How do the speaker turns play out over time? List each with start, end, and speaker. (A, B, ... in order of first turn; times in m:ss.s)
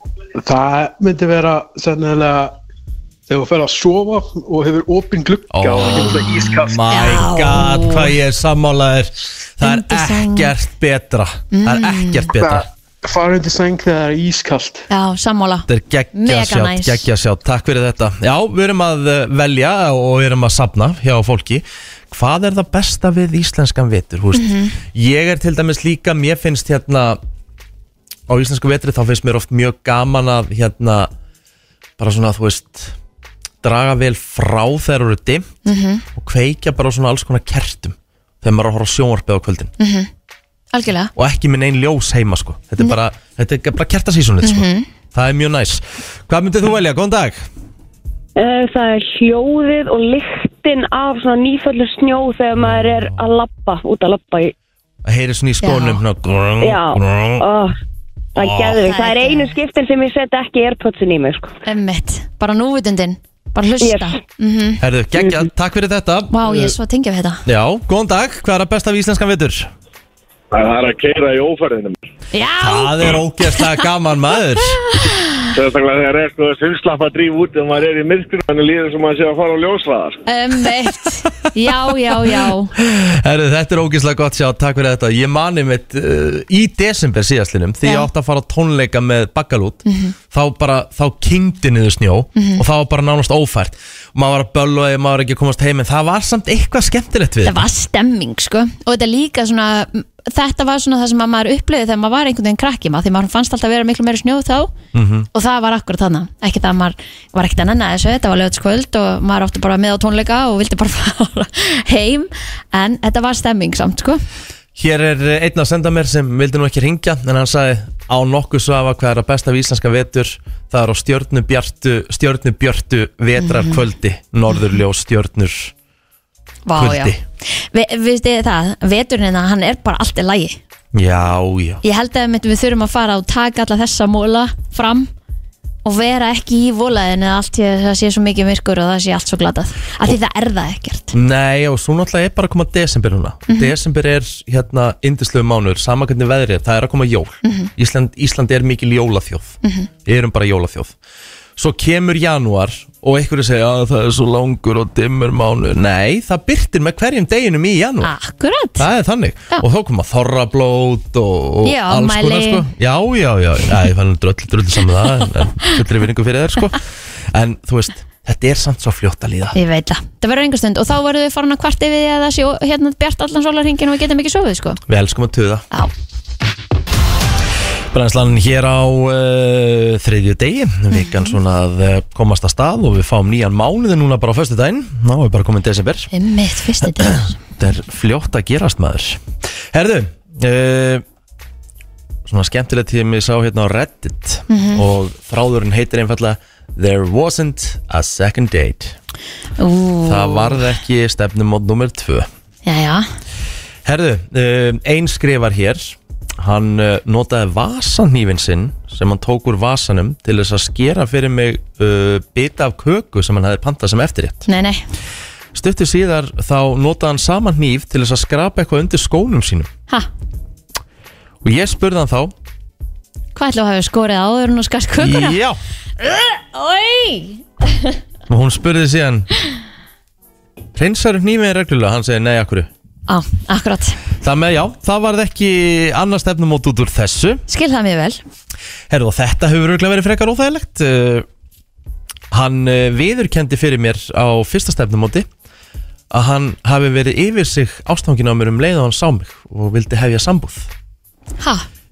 0:00.4-0:02.6 A
0:03.3-0:07.3 A
0:05.5-0:12.7 B
0:06.9-0:08.1 C
0:09.6-0:10.5 C
0:11.5-0:12.3 C
0:12.4-0:14.9 A
0:14.9-0:17.0 C
0:15.7-0:27.2 B
0:24.3-0:24.8 C
0:28.3-0:31.1 B
0:32.0-0:33.0 B
0:33.6-0:35.5 B
0:35.6-0:36.0 C
0:36.2-0:39.7 B
0:39.8-0:40.1 C
0:40.7-0:41.1 C
0:41.2-0:47.5 B
0:44.4-0:44.9 C
0:48.4-0:54.5 D
0:52.7-0:52.9 B
0:55.0-0:57.4 B
0:55.6-0:56.0 C
0:56.6-0:57.7 D
0:58.4-1:01.5 D
0:58.4-0:58.8 B
0:58.8-0:59.5 C
1:01.6-1:04.8 C
1:03.8-1:04.2 D
1:04.8-1:06.7 B
1:06.3-1:07.4 C
1:07.5-1:09.7 B
1:10.5-1:12.0 E
1:12.3-1:13.8 C
1:12.6-1:14.8 B
1:15.0-1:15.4 C
1:15.5-1:20.2 E
1:20.3-1:22.7 C
1:22.2-1:37.6 B
1:27.8-1:28.1 C
1:29.8-1:30.2 C
1:32.4-1:32.6 C
1:37.4-1:44.7 C
1:44.9-1:45.3 B
1:45.3-1:54.2 C
1:54.8-2:05.7 B
2:03.4-2:03.8 C
2:06.7-2:10.6 C
2:06.8-2:07.2 B
2:10.9-2:11.8 B
2:11.8-2:15.1 C
2:15.8-2:21.2 C
2:21.1-2:30.9 B
2:27.4-2:27.7 C
2:29.6-2:29.9 C
2:31.6-2:38.1 B
2:38.0-2:38.9 C
2:38.8-2:49.6 B
2:41.6-2:42.6 C
2:49.6-2:54.8 C
2:54.9-2:55.7 B
2:57.9-3:06.1 B
3:00.9-3:01.4 C
3:06.1-3:07.4 C
3:06.9-3:11.0 B
3:12.3-3:19.0 B
3:14.5-3:14.8 C
3:19.6-3:20.7 C
3:20.1-3:22.3 B
3:22.7-3:23.1 C
3:23.8-3:34.5 B
3:34.5-3:34.9 C
3:35.5-3:39.7 B
3:41.4-3:42.3 B
3:43.4-3:45.4 C
3:45.0-3:45.6 B
3:46.0-3:48.0 C
3:48.3-3:49.3 B
3:50.8-3:52.7 B
3:53.1-3:54.0 C
3:54.2-3:57.4 B
3:57.5-3:58.2 C
3:58.9-4:01.3 B
4:02.3-4:05.3 B
4:06.1-4:10.7 B
4:11.4-4:11.7 C